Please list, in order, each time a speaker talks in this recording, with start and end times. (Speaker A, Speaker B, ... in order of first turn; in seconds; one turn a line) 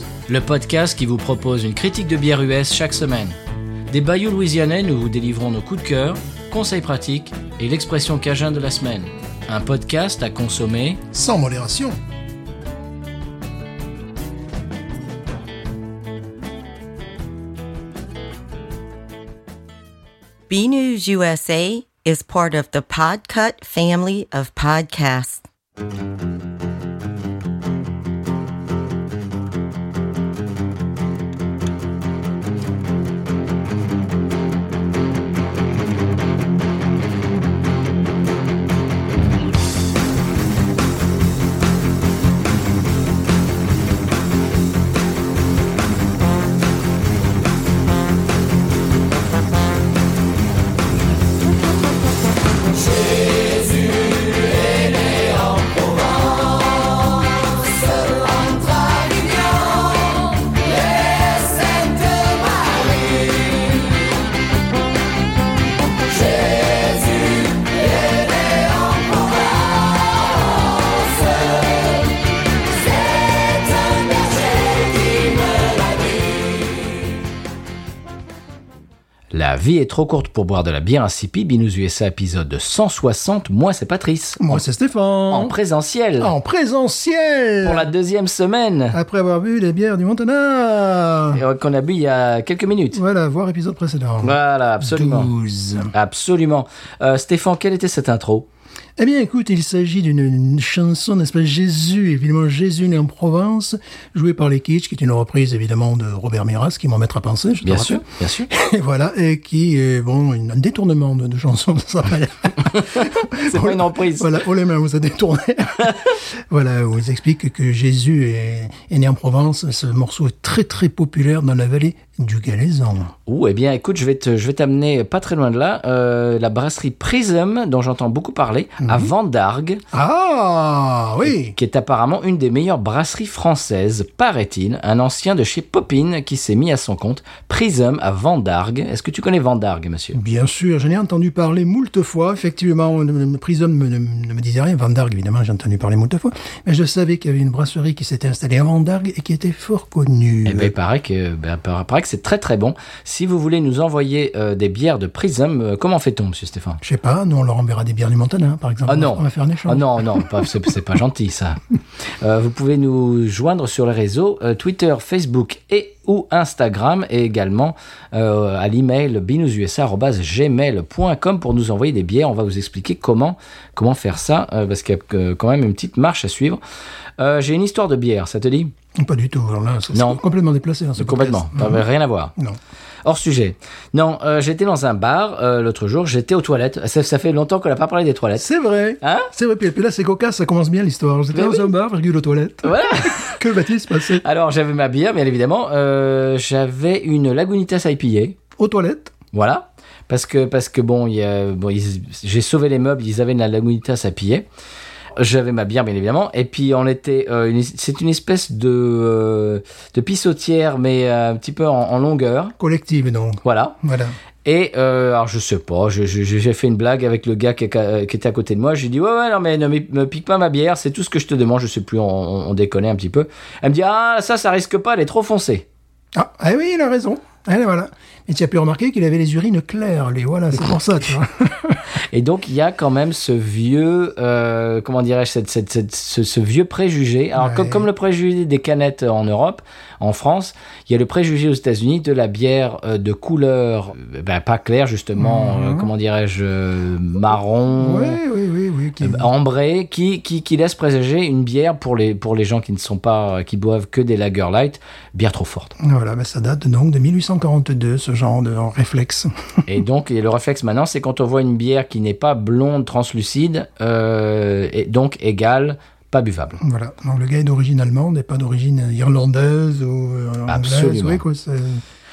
Speaker A: 0.3-3.4
Speaker A: 3.9-11.0
Speaker B: 11.1-12.0
Speaker C: 20.5-25.4
Speaker C: 61.4-62.0
Speaker A: 79.3-84.6
Speaker B: 84.4-85.5
Speaker A: 85.3-86.3
Speaker B: 86.2-87.9
Speaker A: 87.6-89.0
Speaker B: 88.9-91.4
Speaker A: 91.3-93.0
Speaker B: 92.9-95.9
Speaker A: 94.2-95.3
Speaker A: 95.9-98.5
Speaker B: 99.0-123.1
Speaker A: 107.6-108.5
Speaker A: 112.9-114.3
Speaker A: 123.2-129.8
Speaker B: 128.8-129.1
Speaker B: 129.9-131.5
Speaker A: 131.3-140.2
Speaker B: 140.1-150.7
Speaker A: 150.4-156.8
Speaker B: 156.8-160.5
Speaker A: 158.9-161.6
Speaker A: 162.2-176.6
Speaker A: 177.2-178.7
Speaker B: 178.9-181.8
Speaker A: 179.9-180.2
Speaker A: 181.0-182.3
Speaker A: 183.0-188.4
Speaker B: 188.4-194.2
Speaker A: 189.0-189.3
Speaker A: 191.3-191.7
Speaker A: 192.6-193.4
Speaker A: 194.2-198.4
Speaker B: 198.6-199.1
Speaker A: 199.3-204.4
Speaker A: 205.2-212.6
Speaker B: 212.6-214.2
Speaker A: 213.4-213.8
Speaker A: 214.4-225.7
Speaker B: 226.1-231.8
Speaker A: 232.1-248.2
Speaker B: 237.3-237.9
Speaker B: 245.2-245.9
Speaker B: 247.8-249.3
Speaker A: 249.0-255.7
Speaker B: 255.8-259.3
Speaker A: 259.7-266.6
Speaker B: 266.6-271.8
Speaker A: 270.5-271.2